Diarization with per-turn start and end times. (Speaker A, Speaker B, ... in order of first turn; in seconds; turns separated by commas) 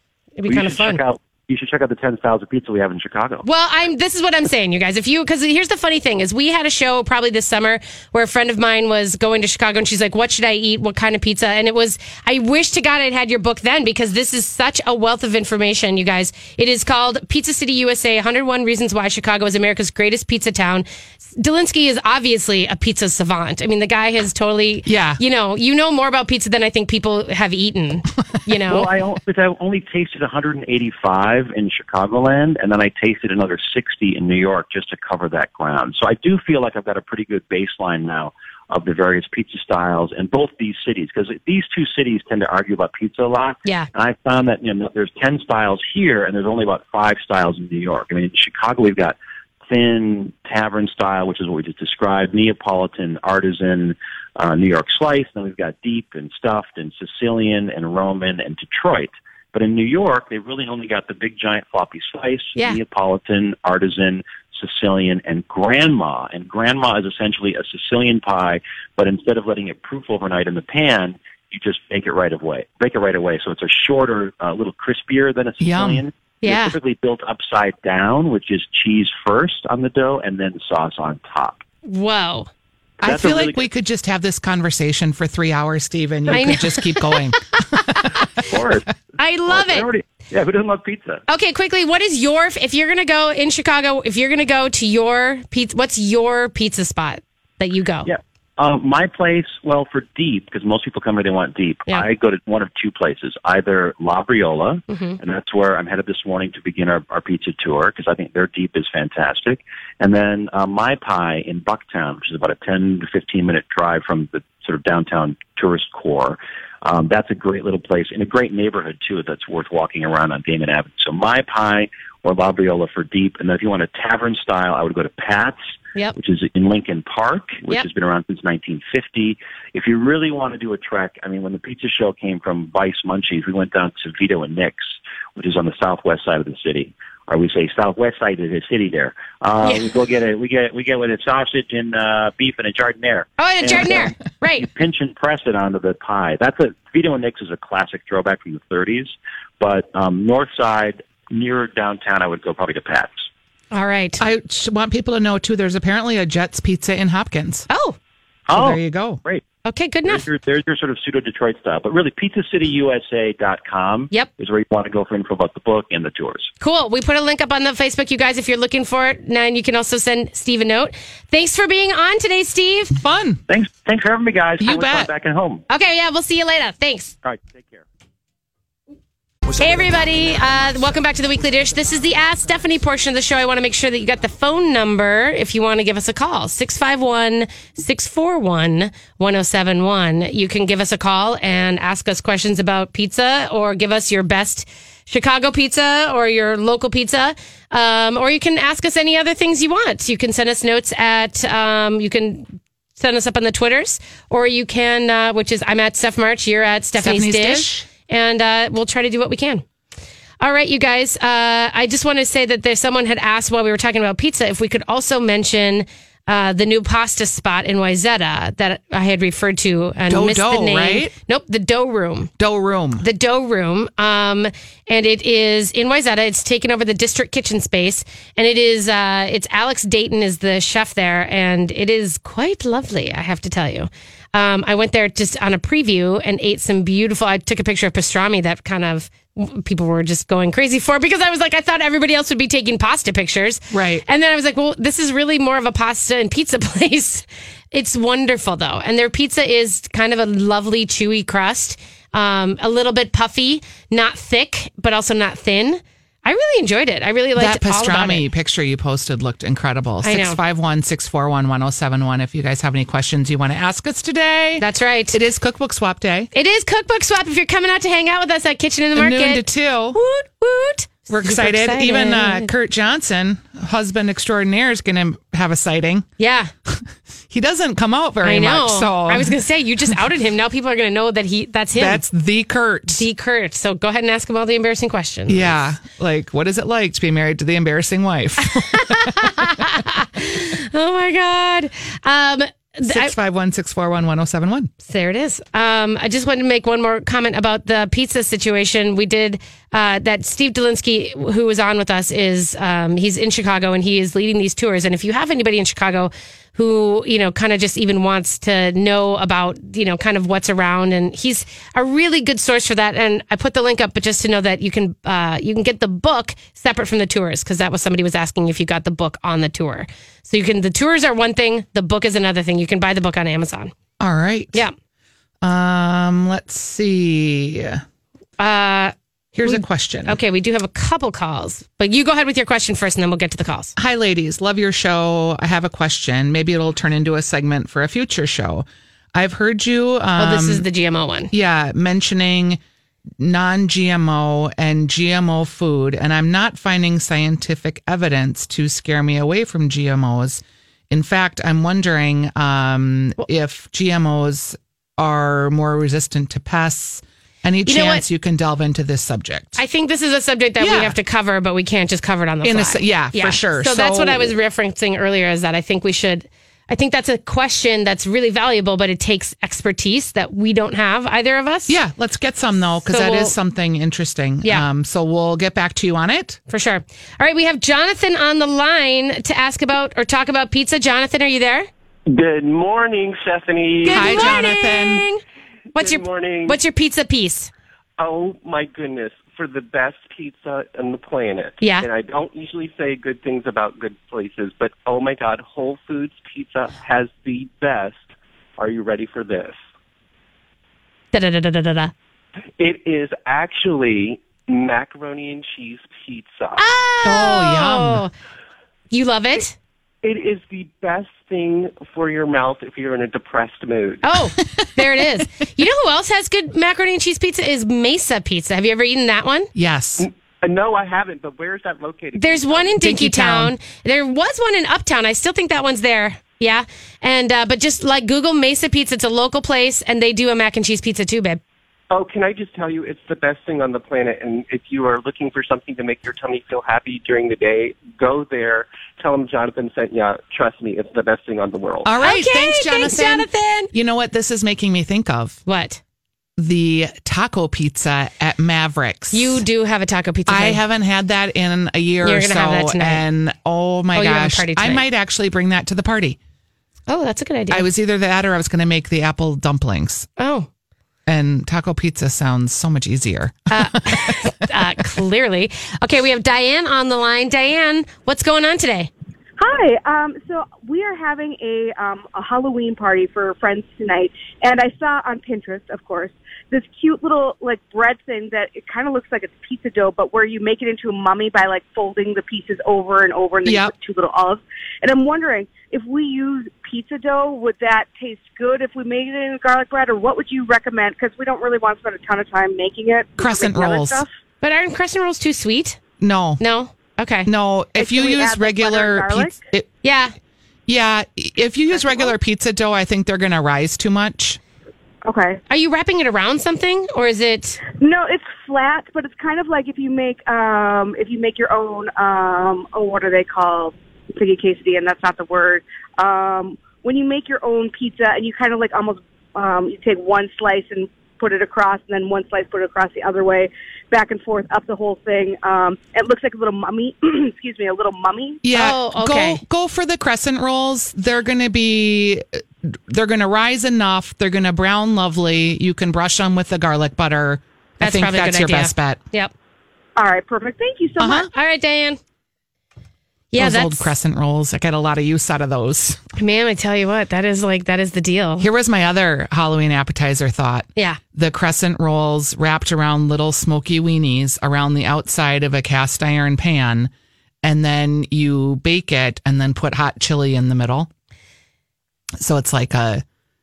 Speaker A: 0.4-1.0, Speaker B: 0.5-3.5, Speaker A: 3.4-28.9, Speaker C: 24.9-25.2, Speaker B: 28.7-49.2, Speaker B: 49.7-81.6, Speaker C: 75.6-76.0, Speaker A: 76.4-76.8, Speaker A: 81.8-82.5, Speaker B: 83.0-83.6, Speaker C: 83.0-88.1, Speaker A: 86.3-88.2, Speaker B: 88.4-89.0, Speaker A: 89.2-89.9, Speaker B: 89.5-91.2, Speaker A: 91.3-98.1, Speaker B: 98.1-125.6, Speaker A: 104.9-105.2, Speaker B: 126.2-153.3, Speaker A: 143.4-144.7, Speaker A: 153.7-154.2, Speaker C: 154.2-157.7, Speaker A: 157.7-158.0, Speaker B: 158.5-159.4, Speaker C: 158.5-159.2, Speaker A: 159.7-160.2, Speaker B: 160.1-166.5, Speaker A: 166.6-172.9, Speaker C: 172.9-173.4, Speaker B: 173.5-175.6, Speaker C: 174.6-175.1, Speaker A: 175.7-177.2, Speaker B: 177.2-177.8, Speaker A: 179.6-209.6, Speaker C: 207.0-207.9, Speaker A: 210.4-222.3, Speaker C: 220.1-221.1, Speaker C: 222.4-223.1, Speaker A: 223.0-258.3, Speaker C: 243.7-244.0, Speaker C: 257.4-266.3, Speaker A: 260.0-260.4, Speaker A: 264.6-265.2, Speaker A: 266.3-272.5, Speaker C: 268.9-270.0, Speaker C: 271.1-276.1, Speaker A: 276.2-276.5, Speaker C: 276.7-279.4, Speaker A: 278.2-282.0, Speaker C: 281.8-283.0, Speaker A: 282.9-285.7, Speaker C: 285.3-289.6, Speaker A: 288.7-293.1, Speaker C: 292.8-294.7, Speaker A: 294.9-323.7, Speaker C: 324.0-324.6, Speaker C: 325.4-327.8, Speaker A: 328.4-328.9, Speaker C: 329.4-330.2, Speaker A: 329.4-333.7, Speaker C: 333.8-340.6, Speaker A: 340.2-341.3, Speaker C: 341.3-342.6, Speaker C: 343.2-359.6, Speaker A: 357.7-358.0, Speaker A: 359.6-371.8, Speaker C: 360.6-361.0, Speaker C: 362.4-364.3, Speaker C: 371.7-376.4, Speaker A: 372.9-373.3, Speaker A: 376.5-381.7, Speaker D: 382.1-384.4, Speaker A: 383.9-385.2, Speaker C: 383.9-385.1, Speaker A: 385.7-387.5, Speaker D: 385.8-386.6, Speaker D: 388.0-399.6, Speaker A: 391.6-391.9, Speaker A: 401.1-401.9, Speaker D: 402.6-406.7, Speaker A: 406.6-408.1, Speaker C: 407.1-408.0, Speaker A: 408.9-409.6, Speaker D: 410.0-414.0, Speaker A: 414.0-419.5, Speaker C: 419.6-420.1, Speaker D: 420.0-422.9, Speaker A: 422.2-431.4, Speaker C: 422.8-423.6, Speaker D: 431.9-441.9, Speaker C: 441.9-445.4, Speaker A: 442.0-443.7, Speaker A: 445.5-445.8, Speaker C: 446.4-449.4, Speaker A: 449.1-450.6, Speaker C: 450.3-456.2, Speaker A: 452.0-453.0, Speaker A: 453.9-454.9, Speaker A: 456.9-457.7, Speaker C: 457.5-460.1, Speaker A: 460.2-460.5, Speaker C: 461.1-464.1, Speaker A: 463.5-468.9, Speaker E: 469.4-494.1, Speaker C: 483.4-483.7, Speaker C: 493.2-494.0, Speaker A: 494.4-495.8, Speaker C: 496.0-496.4, Speaker A: 496.4-497.3, Speaker C: 497.3-499.7, Speaker E: 497.8-499.4, Speaker A: 499.8-500.1, Speaker C: 500.7-504.4, Speaker E: 501.8-502.1, Speaker E: 505.1-505.4, Speaker A: 505.5-507.6, Speaker E: 507.8-528.4, Speaker C: 528.4-539.0, Speaker A: 528.5-529.4, Speaker A: 537.8-539.3, Speaker E: 540.0-541.3, Speaker C: 541.0-541.3, Speaker A: 541.3-542.0, Speaker A: 543.3-543.9, Speaker C: 543.4-546.0, Speaker A: 546.2-548.5, Speaker C: 548.4-556.9, Speaker C: 557.4-560.9, Speaker C: 562.2-563.0